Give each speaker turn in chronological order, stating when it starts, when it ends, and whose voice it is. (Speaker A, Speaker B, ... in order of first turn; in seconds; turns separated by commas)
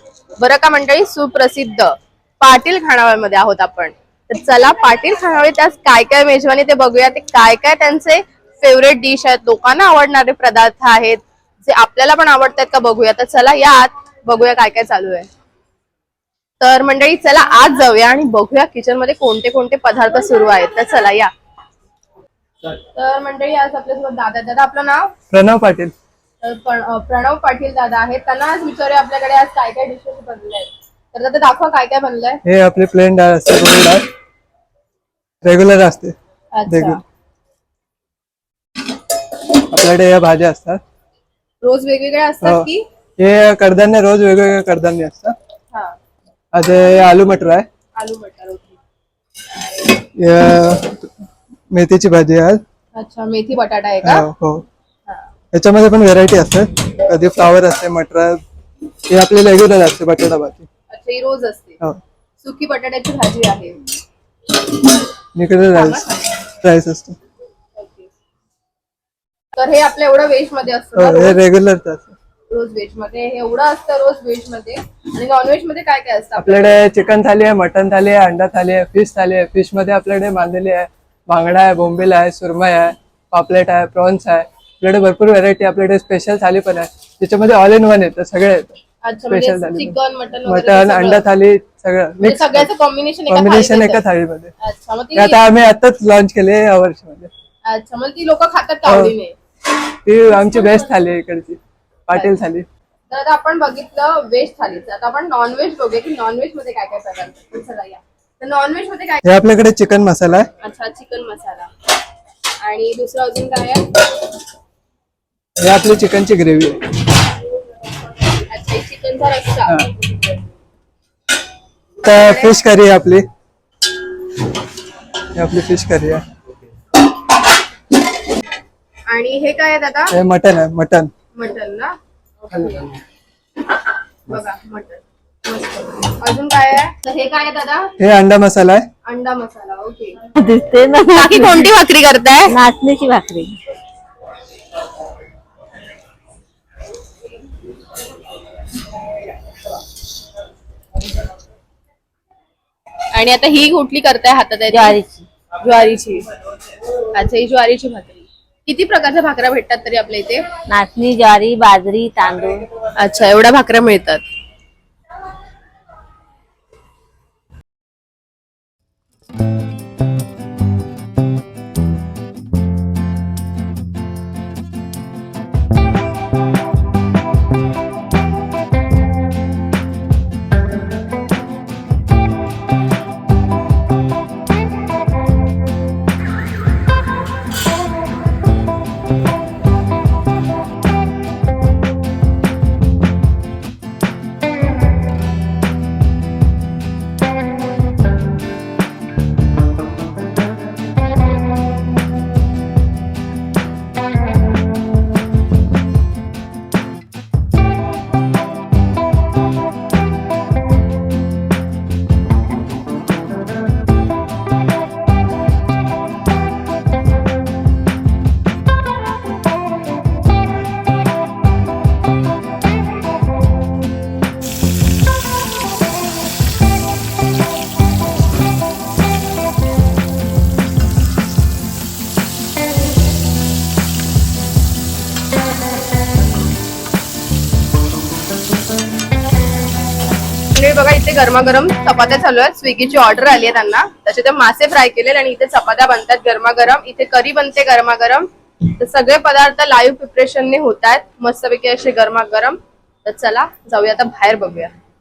Speaker A: 0.4-15.3, Speaker A: 16.6-21.3, Speaker A: 22.9-25.1, Speaker B: 25.3-25.9, Speaker A: 26.4-32.4, Speaker B: 32.4-34.0, Speaker B: 35.4-36.1, Speaker A: 36.5-37.0, Speaker B: 36.7-37.0, Speaker B: 39.5-40.8, Speaker A: 41.6-42.8, Speaker B: 42.4-45.4, Speaker B: 46.5-47.7, Speaker A: 48.0-48.8, Speaker B: 50.2-51.1, Speaker B: 51.7-52.6, Speaker A: 53.0-54.3, Speaker B: 54.0-54.6, Speaker B: 55.5-58.4, Speaker B: 59.1-60.7, Speaker A: 60.9-61.8, Speaker A: 62.4-63.8, Speaker B: 65.4-67.2, Speaker A: 65.7-66.1, Speaker A: 67.8-68.1, Speaker A: 69.5-71.4, Speaker B: 71.0-72.2, Speaker A: 72.5-76.8, Speaker B: 76.4-92.7, Speaker A: 89.0-91.3, Speaker A: 92.2-94.0, Speaker B: 93.3-94.5, Speaker A: 94.6-95.5, Speaker B: 95.2-97.3, Speaker A: 97.7-99.4, Speaker B: 98.9-99.1, Speaker B: 100.0-102.7, Speaker A: 103.1-109.2, Speaker B: 109.2-110.5, Speaker A: 110.6-111.7, Speaker A: 112.6-113.9, Speaker B: 115.6-116.8, Speaker A: 118.3-119.8, Speaker B: 122.0-123.3, Speaker A: 122.0-122.6, Speaker B: 125.3-126.2, Speaker A: 129.1-130.1, Speaker B: 130.1-131.1, Speaker A: 131.3-131.9, Speaker A: 132.5-132.8, Speaker A: 134.3-137.9, Speaker B: 138.0-138.9, Speaker A: 139.1-140.2, Speaker C: 140.3-141.7, Speaker A: 141.1-142.6, Speaker C: 142.5-143.6, Speaker A: 153.1-155.0, Speaker C: 154.7-155.2, Speaker A: 155.6-156.2, Speaker A: 157.1-160.4, Speaker C: 160.7-162.7, Speaker A: 163.0-164.2, Speaker A: 240.5-254.7